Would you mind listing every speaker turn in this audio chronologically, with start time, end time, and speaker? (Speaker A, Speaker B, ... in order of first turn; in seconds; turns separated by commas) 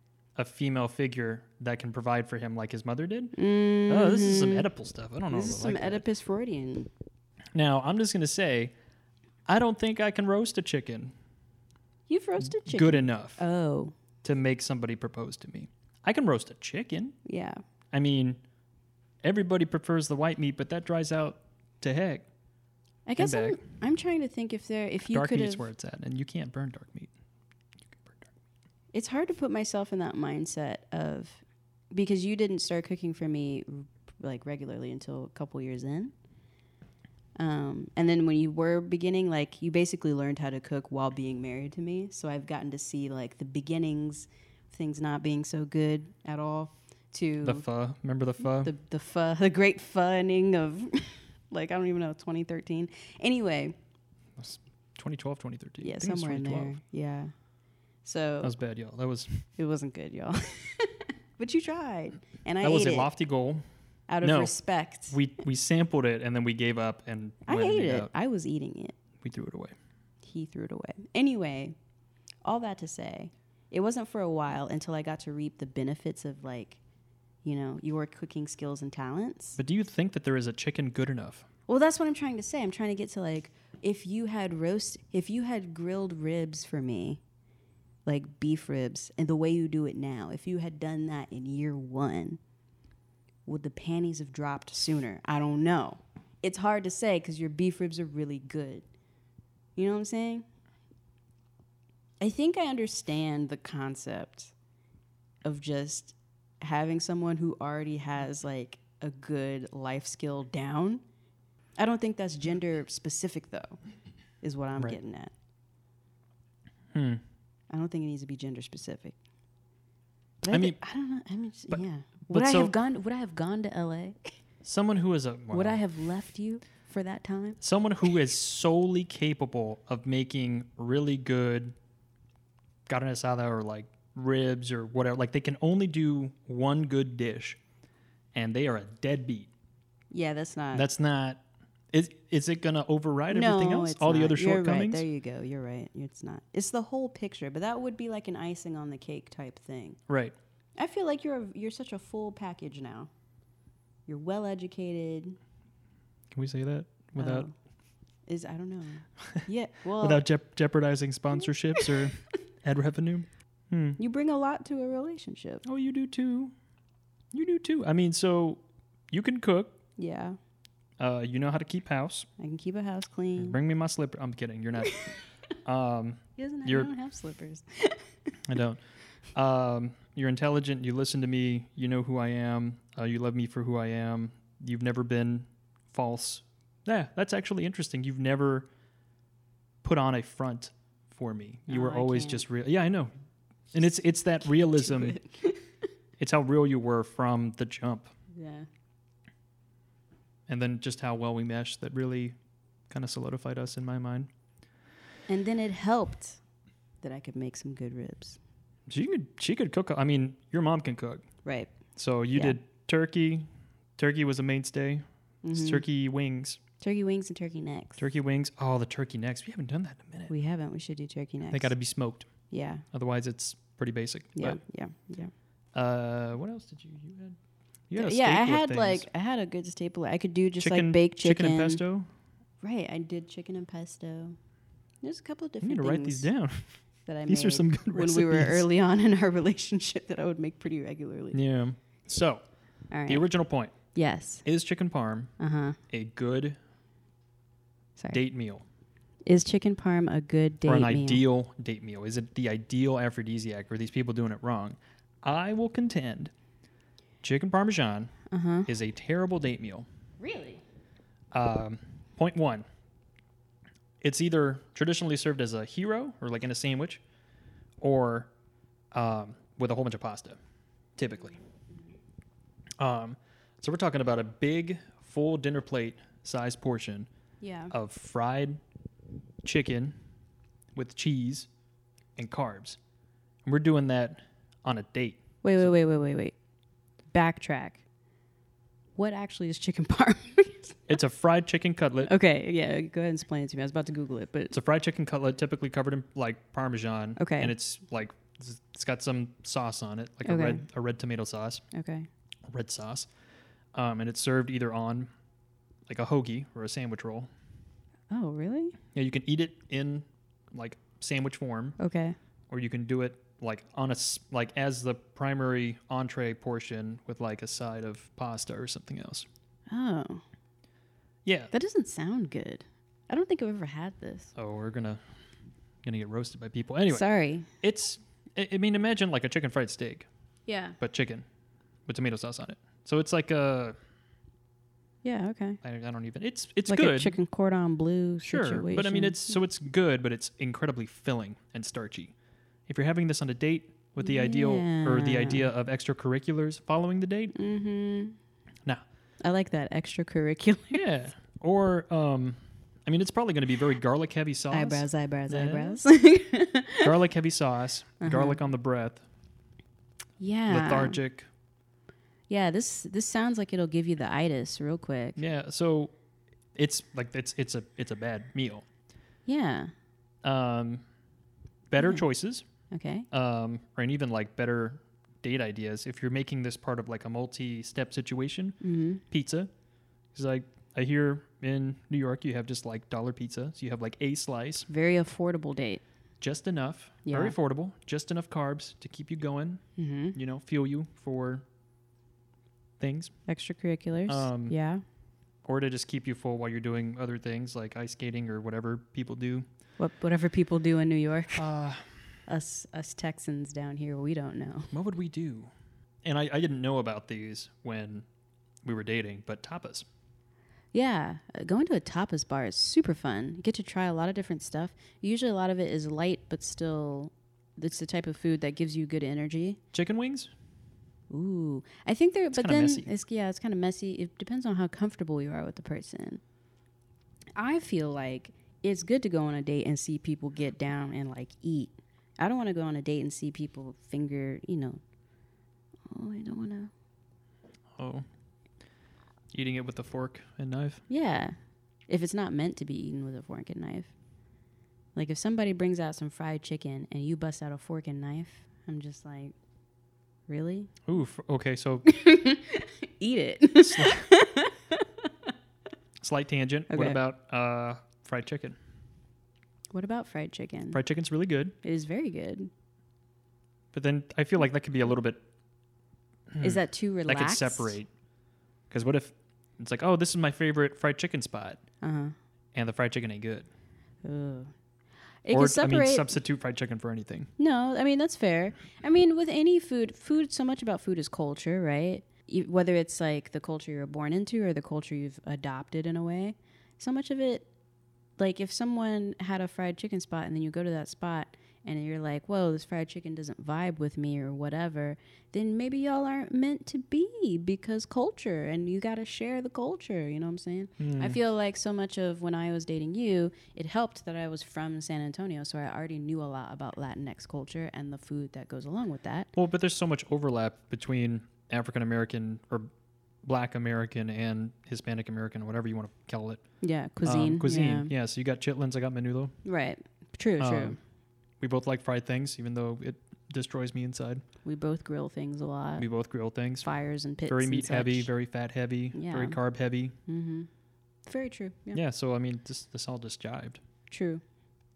Speaker A: 0.3-3.3, Speaker B: 3.3-4.7, Speaker A: 3.9-6.0, Speaker B: 5.3-6.9, Speaker A: 7.5-8.7, Speaker A: 9.5-11.1, Speaker B: 12.1-13.9, Speaker A: 12.6-13.4, Speaker A: 14.2-17.1, Speaker B: 17.2-17.6, Speaker A: 17.9-18.4, Speaker A: 19.2-22.3, Speaker B: 23.1-25.7, Speaker A: 23.2-23.6, Speaker A: 25.1-27.1, Speaker A: 27.8-28.3, Speaker B: 28.9-36.1, Speaker B: 37.4-47.6, Speaker A: 47.4-48.7, Speaker B: 48.6-53.7, Speaker A: 54.4-56.8, Speaker B: 55.8-57.3, Speaker B: 58.0-58.5, Speaker A: 58.4-59.4, Speaker B: 59.6-63.1, Speaker A: 62.6-63.6, Speaker B: 64.1-65.2, Speaker A: 64.2-64.5, Speaker A: 65.1-68.1, Speaker B: 67.5-68.9, Speaker A: 69.2-69.7, Speaker B: 70.2-71.7, Speaker B: 72.4-76.8, Speaker B: 77.4-79.6, Speaker A: 79.6-81.5, Speaker B: 81.7-87.2, Speaker B: 88.0-92.4, Speaker B: 93.5-98.8, Speaker B: 99.8-100.4, Speaker B: 102.2-104.5, Speaker B: 105.4-111.0, Speaker B: 111.8-113.8, Speaker B: 114.4-115.3, Speaker A: 116.9-117.2, Speaker B: 117.7-119.2, Speaker B: 120.4-124.3, Speaker A: 120.5-120.8, Speaker A: 121.7-122.7, Speaker A: 124.6-125.8, Speaker B: 125.5-127.6, Speaker A: 127.6-131.7, Speaker A: 132.9-137.6, Speaker A: 138.3-139.5, Speaker B: 140.1-140.9, Speaker A: 140.7-145.0, Speaker B: 143.3-150.0, Speaker A: 150.1-150.3, Speaker B: 150.8-153.1, Speaker B: 154.1-155.4, Speaker A: 156.3-157.5, Speaker B: 157.2-157.5, Speaker B: 158.3-160.2, Speaker A: 160.0-164.0, Speaker B: 164.0-165.6, Speaker A: 165.6-166.5, Speaker A: 167.3-169.8, Speaker B: 170.0-170.4, Speaker A: 171.0-172.3, Speaker B: 172.4-173.6, Speaker A: 173.4-175.0, Speaker B: 174.8-175.2, Speaker A: 175.6-176.9, Speaker B: 176.4-178.0, Speaker A: 178.4-178.8, Speaker A: 179.3-188.7, Speaker A: 189.8-193.1, Speaker B: 191.7-192.4, Speaker A: 193.7-195.2, Speaker B: 194.7-195.6, Speaker A: 196.2-198.1, Speaker B: 198.3-198.7, Speaker A: 200.5-202.3, Speaker A: 202.9-204.3, Speaker B: 205.3-206.4, Speaker B: 207.0-208.4, Speaker A: 208.9-211.3, Speaker B: 211.4-211.7, Speaker A: 211.9-216.6, Speaker B: 215.4-215.8, Speaker B: 216.8-218.0, Speaker A: 218.0-220.3, Speaker B: 220.3-221.7, Speaker A: 221.5-222.3, Speaker B: 222.5-222.8, Speaker A: 222.9-224.6, Speaker B: 224.3-225.3, Speaker A: 225.7-227.4, Speaker A: 227.9-229.1, Speaker B: 227.9-231.8, Speaker A: 230.6-232.1, Speaker B: 232.6-234.3, Speaker B: 235.0-236.3, Speaker A: 235.6-238.7, Speaker B: 237.1-241.4, Speaker A: 241.3-242.4, Speaker B: 242.9-243.2, Speaker A: 243.1-243.7, Speaker B: 243.9-244.4, Speaker A: 244.4-245.3, Speaker B: 245.4-245.8, Speaker A: 245.9-246.6, Speaker A: 248.1-248.6, Speaker B: 249.2-251.2, Speaker A: 250.7-256.3, Speaker A: 257.2-258.1, Speaker B: 258.3-258.7, Speaker A: 258.7-259.9, Speaker B: 260.2-260.6, Speaker A: 261.3-262.6, Speaker A: 264.0-267.0, Speaker A: 267.8-268.3, Speaker A: 268.9-270.4, Speaker A: 271.0-271.4, Speaker A: 272.8-277.1, Speaker B: 277.4-277.7, Speaker A: 277.7-278.6, Speaker A: 279.4-279.9, Speaker A: 280.7-281.5, Speaker A: 282.1-282.8, Speaker A: 283.4-285.7, Speaker B: 285.4-286.3, Speaker B: 287.1-287.8, Speaker B: 289.0-290.8, Speaker A: 290.9-292.1, Speaker B: 292.0-294.5, Speaker A: 294.5-301.6, Speaker B: 297.2-297.5, Speaker B: 300.2-300.6, Speaker B: 301.7-302.1, Speaker A: 302.5-303.1, Speaker A: 303.7-305.1, Speaker A: 305.9-307.3, Speaker B: 308.1-308.8, Speaker A: 308.9-311.8, Speaker B: 311.8-312.1, Speaker A: 312.5-319.2, Speaker B: 319.7-320.2, Speaker A: 321.2-321.5, Speaker B: 321.5-324.3, Speaker A: 324.4-325.0, Speaker A: 325.8-327.1, Speaker B: 326.9-327.5, Speaker A: 327.6-330.1, Speaker B: 330.5-330.8, Speaker A: 330.8-331.2, Speaker A: 331.9-333.8, Speaker B: 335.0-335.6, Speaker A: 335.6-337.1, Speaker B: 336.7-339.4, Speaker A: 338.2-342.1, Speaker A: 342.7-347.3, Speaker B: 344.0-345.5, Speaker B: 347.3-348.2, Speaker B: 349.2-350.8, Speaker A: 350.7-355.8, Speaker B: 354.5-356.9, Speaker A: 356.8-359.0, Speaker B: 358.0-358.4, Speaker B: 360.2-361.0, Speaker A: 360.5-361.3, Speaker B: 362.3-365.2, Speaker A: 365.2-365.9, Speaker A: 366.5-368.6, Speaker B: 369.2-369.7, Speaker A: 370.2-370.8, Speaker A: 371.7-372.4, Speaker B: 372.7-373.1, Speaker A: 373.1-378.6, Speaker B: 378.6-379.0, Speaker A: 379.1-379.5, Speaker A: 380.1-384.7, Speaker B: 384.7-385.8, Speaker A: 386.2-389.6, Speaker B: 387.1-387.3, Speaker B: 389.8-390.2, Speaker A: 390.1-391.4, Speaker A: 392.8-393.1, Speaker B: 393.3-394.8, Speaker A: 394.1-394.5, Speaker A: 395.4-399.4, Speaker B: 399.8-401.4, Speaker A: 401.3-401.8, Speaker B: 402.3-404.7, Speaker A: 404.7-405.5, Speaker A: 406.0-408.1, Speaker A: 408.6-409.9, Speaker B: 410.7-419.6, Speaker A: 419.7-420.3, Speaker B: 421.1-426.2, Speaker A: 422.4-422.9, Speaker B: 427.4-434.8, Speaker B: 435.9-436.7, Speaker A: 437.8-438.0, Speaker A: 439.3-440.8, Speaker B: 440.9-441.4, Speaker B: 441.9-443.9, Speaker B: 444.9-449.3, Speaker B: 450.3-450.8, Speaker A: 450.9-451.9, Speaker B: 451.9-455.1, Speaker A: 453.6-454.1, Speaker A: 456.0-458.6, Speaker B: 456.7-457.0, Speaker B: 459.7-460.8, Speaker A: 460.7-461.5, Speaker B: 461.6-462.5, Speaker A: 463.7-465.2, Speaker A: 466.3-467.9, Speaker B: 466.4-467.8, Speaker A: 468.7-471.6, Speaker B: 471.8-472.1, Speaker A: 472.5-473.5, Speaker B: 474.0-474.5, Speaker B: 475.2-476.1, Speaker A: 475.3-477.3, Speaker B: 477.4-487.5, Speaker B: 488.2-509.3, Speaker A: 500.8-501.2, Speaker A: 509.3-512.7, Speaker A: 513.2-516.4, Speaker B: 516.6-517.9, Speaker A: 517.0-519.3, Speaker B: 519.4-520.8, Speaker A: 520.4-520.8, Speaker A: 521.4-524.2, Speaker B: 524.4-525.9, Speaker A: 525.8-526.7, Speaker B: 526.6-528.1, Speaker A: 527.2-529.9, Speaker B: 528.9-529.4, Speaker B: 530.1-530.5, Speaker B: 531.0-531.8, Speaker A: 531.7-533.6, Speaker B: 533.9-534.2